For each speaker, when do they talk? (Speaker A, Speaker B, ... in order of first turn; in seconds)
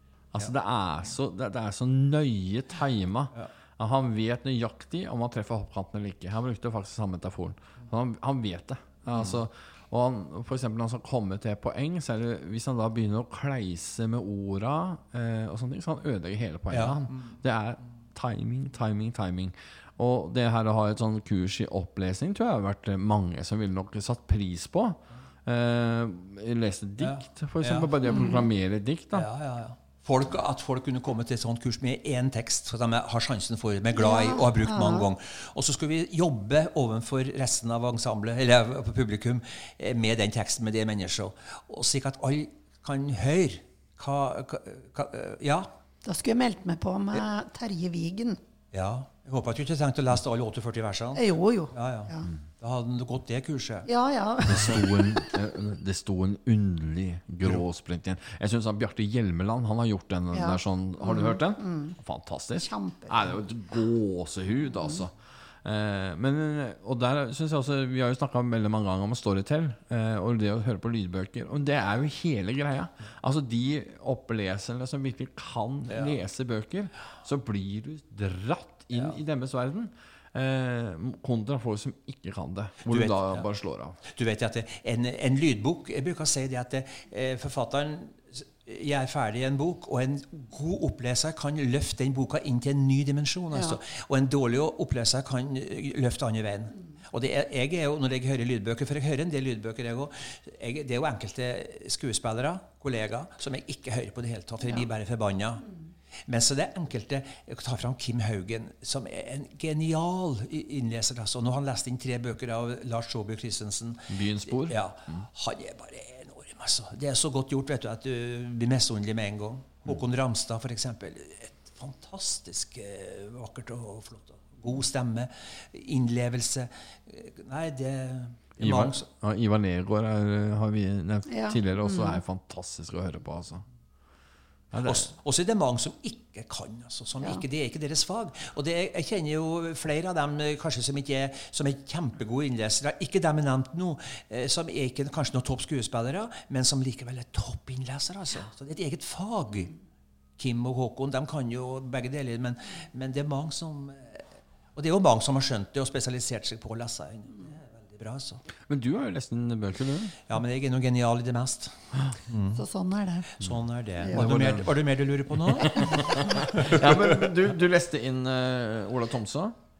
Speaker A: 0.3-29.3, 54.5-84.0, 114.1-115.2, 128.6-133.6, 134.7-135.1, 158.7-160.2, 164.1-164.7, 165.6-169.5
Speaker B: 9.1-9.4, 16.7-17.4, 27.0-28.0, 29.1-45.7, 48.7-53.9, 75.9-76.2, 82.9-83.5, 84.1-105.7, 106.3-129.1, 134.8-149.7, 150.4-154.2, 154.8-158.4, 160.3-162.6, 163.4-167.4
Speaker C: 28.1-28.4, 33.9-35.1, 46.0-48.4, 51.1-52.3, 53.9-55.2, 60.3-62.0, 62.6-63.3, 131.3-132.2, 162.5-163.3